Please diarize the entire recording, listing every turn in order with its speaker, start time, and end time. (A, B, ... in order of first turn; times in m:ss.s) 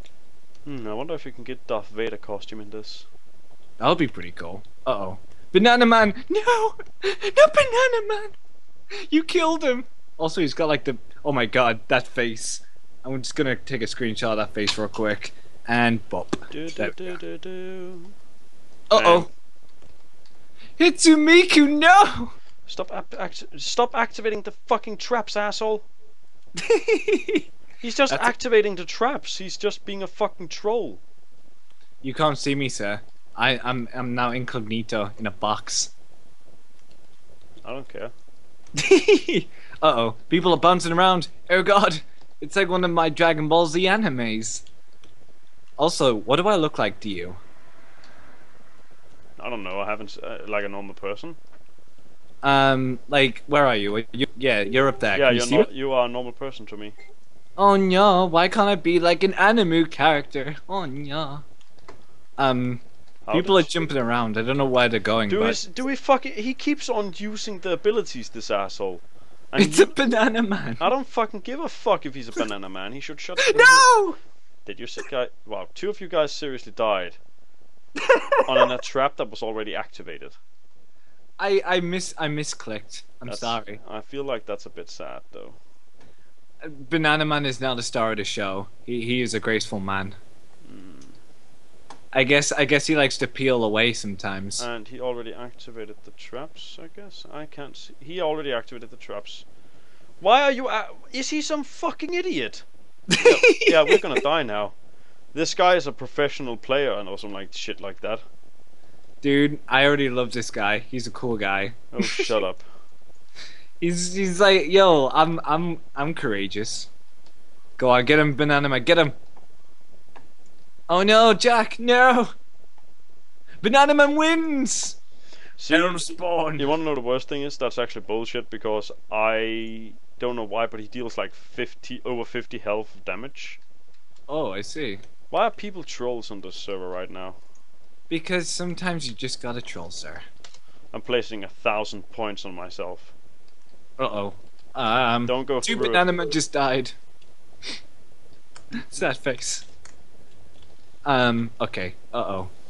0:00.6-0:03.1 A
0:03.8-0:08.3 B
0:09.1-0:17.1 B
0:16.5-0:18.1 A
0:18.9-0:19.3 B
0:18.9-0:19.3 A
0:20.8-0:22.3 B
0:22.7-0:25.9 A
0:26.6-0:27.5 B
0:27.8-0:31.0 A
0:32.0-0:35.9 B
0:37.6-0:38.1 A
0:38.8-0:44.6 B
0:45.8-0:47.4 B
0:49.4-0:51.4 A
0:52.4-0:55.7 B
0:55.1-0:56.9 A
0:57.6-1:01.4 B
1:02.4-1:05.6 B
1:03.2-1:03.8 A
1:05.3-1:09.9 A
1:09.6-1:10.9 B
1:10.8-1:13.9 A
1:13.5-1:14.2 B
1:14.6-1:17.2 A
1:18.0-1:18.4 B
1:18.4-1:20.4 A
1:21.4-1:23.8 B
1:23.3-1:25.6 A
1:26.6-1:30.2 B
1:30.6-1:31.2 A
1:32.1-1:34.6 B
1:34.6-1:39.4 A
1:40.2-1:42.6 A
1:43.1-1:44.0 B
1:43.2-1:44.8 A
1:45.3-1:48.2 A
1:49.2-1:52.3 B
1:51.9-1:52.6 A
1:53.8-1:56.9 B
1:57.8-1:59.1 B
2:00.9-2:02.3 B
2:03.6-2:05.0 B
2:05.6-2:13.6 A
2:05.7-2:06.7 B
2:14.3-2:15.0 B
2:15.3-2:17.4 A
2:18.1-2:20.2 B
2:20.9-2:23.1 A
2:24.0-2:27.0 B
2:25.2-2:26.1 A
2:28.7-2:29.6 B
2:31.0-2:32.5 B